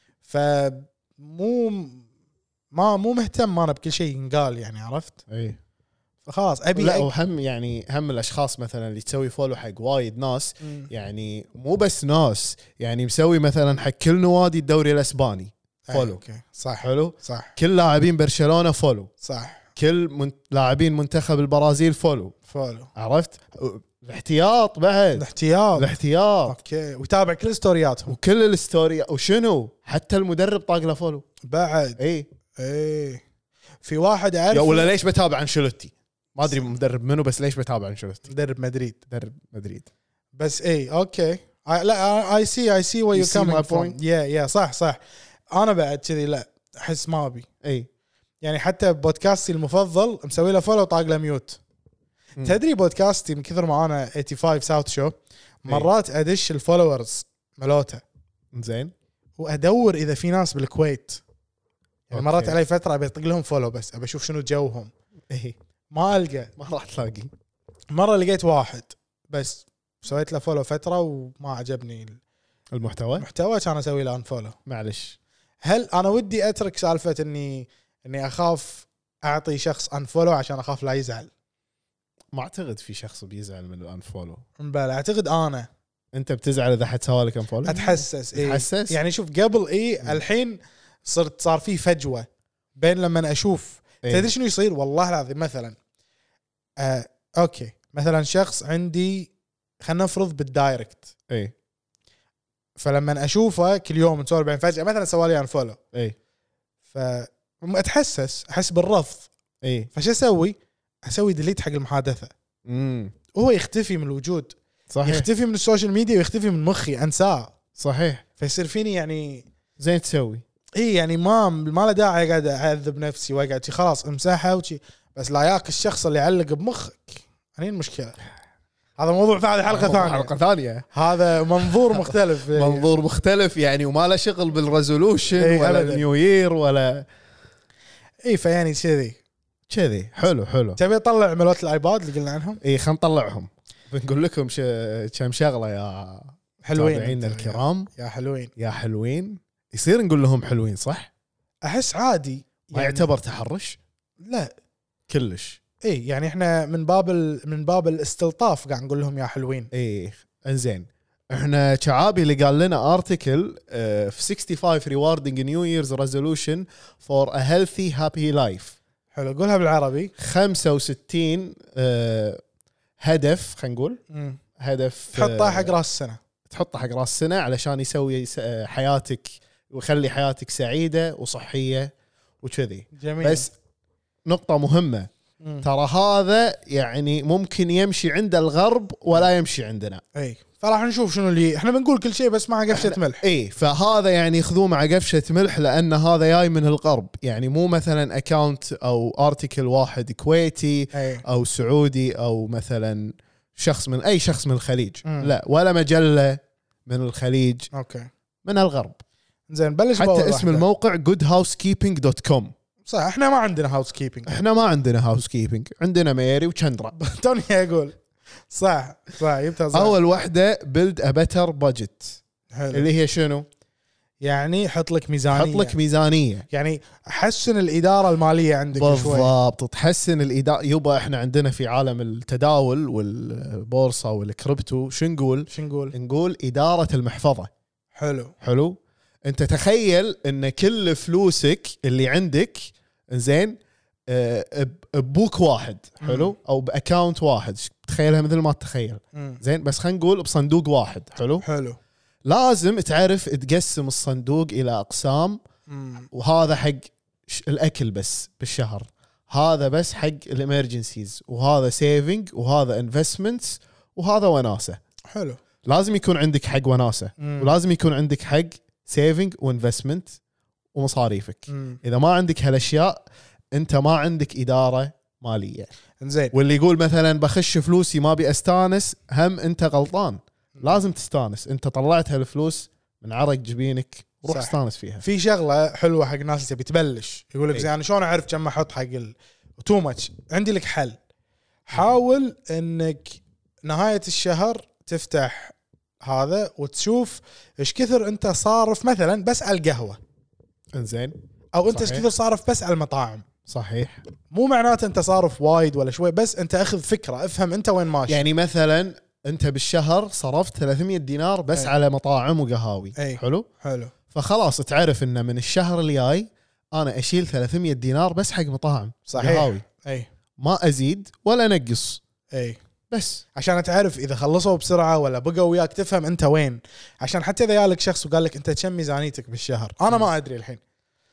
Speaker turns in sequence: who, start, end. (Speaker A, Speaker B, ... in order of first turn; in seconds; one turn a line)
Speaker A: 0.2-2.0
Speaker A: 2.7-5.2
Speaker B: 5.3-5.6
Speaker A: 6.2-7.1
Speaker B: 6.8-16.2
Speaker A: 10.6-10.9
Speaker A: 15.9-17.5
Speaker B: 16.8-19.1
Speaker A: 19.2-19.6
Speaker B: 19.8-22.3
Speaker A: 22.5-22.9
Speaker B: 22.9-26.6
Speaker A: 25.1-25.9
Speaker A: 26.4-28.1
Speaker B: 28.1-31.2
Speaker A: 31.4-32.0
Speaker B: 32.0-32.3
Speaker A: 32.5-33.2
Speaker A: 33.8-34.9
Speaker B: 34.5-38.3
Speaker A: 38.3-39.0
Speaker B: 39.1-39.9
Speaker A: 40.4-45.0
Speaker B: 43.1-44.0
Speaker A: 45.5-47.5
Speaker B: 47.6-47.9
Speaker A: 48.4-51.6
Speaker A: 52.4-58.0
Speaker B: 58.5-58.9
Speaker A: 59.4-61.2
Speaker A: 62.1-64.9
Speaker B: 62.1-62.5
Speaker B: 65.3-65.5
Speaker A: 65.9-66.5
Speaker B: 66.6-67.3
Speaker A: 67.9-72.2
Speaker B: 72.7-73.2
Speaker A: 73.2-74.5
Speaker B: 74.7-75.2
Speaker A: 75.6-81.3
Speaker B: 82.3-84.4
Speaker A: 84.6-85.7
Speaker B: 86.1-89.0
Speaker A: 87.6-95.8
Speaker B: 94.0-94.3
Speaker A: 96.8-99.3
Speaker A: 99.8-101.1
Speaker A: 102.8-105.8
Speaker A: 106.9-109.3
Speaker B: 109.6-109.9
Speaker A: 109.9-112.3
Speaker B: 112.7-113.1
Speaker A: 113.3-117.5
Speaker B: 114.9-115.3
Speaker B: 117.8-118.2
Speaker A: 118.4-119.5
Speaker B: 119.8-120.4
Speaker A: 120.8-128.2
Speaker A: 129.0-130.3
Speaker B: 129.7-130.9
Speaker A: 130.9-132.9
Speaker B: 131.6-137.1
Speaker A: 135.4-136.0
Speaker A: 138.2-139.2
Speaker B: 139.7-140.8
Speaker A: 140.8-142.6
Speaker B: 142.6-147.9
Speaker A: 146.6-148.5
Speaker B: 148.6-151.1
Speaker A: 151.6-153.1
Speaker B: 152.7-153.8
Speaker A: 154.2-154.5
Speaker B: 155.1-155.6
Speaker A: 155.8-159.7
Speaker B: 159.7-168.8
Speaker A: 169.1-170.1
Speaker B: 170.2-172.4
Speaker B: 173.0-174.0
Speaker A: 174.1-174.4
Speaker B: 174.6-175.7
Speaker A: 175.1-176.2
Speaker B: 176.5-183.5
Speaker A: 183.0-183.5
Speaker B: 184.2-185.1
Speaker B: 185.6-190.0
Speaker A: 190.1-193.2
Speaker B: 192.7-207.7
Speaker A: 200.9-201.2
Speaker A: 205.0-205.3
Speaker A: 207.7-208.1
Speaker B: 208.4-209.0
Speaker A: 209.5-210.6
Speaker B: 210.0-212.5
Speaker A: 212.8-214.3
Speaker B: 214.3-216.9
Speaker A: 216.9-218.0
Speaker A: 218.5-220.0
Speaker B: 219.7-222.2
Speaker A: 222.5-222.8
Speaker B: 222.7-223.4
Speaker A: 224.2-225.8
Speaker B: 225.3-226.5
Speaker A: 226.5-229.3
Speaker B: 228.7-237.5
Speaker A: 235.5-235.9
Speaker A: 238.0-238.3
Speaker B: 238.4-251.4
Speaker A: 246.0-246.3
Speaker A: 249.1-249.4
Speaker A: 251.4-251.8
Speaker B: 252.2-255.4
Speaker A: 255.7-256.1
Speaker B: 256.1-264.8
Speaker A: 265.1-265.4
Speaker B: 265.6-270.2
Speaker A: 267.2-267.5
Speaker B: 270.7-273.0
Speaker A: 271.5-271.8
Speaker B: 273.5-275.7
Speaker A: 276.0-276.3
Speaker B: 276.3-285.0
Speaker A: 280.6-280.8
Speaker A: 284.3-291.0
Speaker A: 291.7-300.0
Speaker B: 300.7-301.2
Speaker A: 301.5-303.2
Speaker B: 301.7-302.1
Speaker B: 303.5-304.0
Speaker A: 304.3-308.2
Speaker B: 308.1-313.5
Speaker A: 313.0-313.9
Speaker B: 314.1-319.6
Speaker A: 319.1-320.1
Speaker B: 320.4-322.0
Speaker A: 322.3-322.6
Speaker B: 322.9-323.2
Speaker A: 323.3-330.6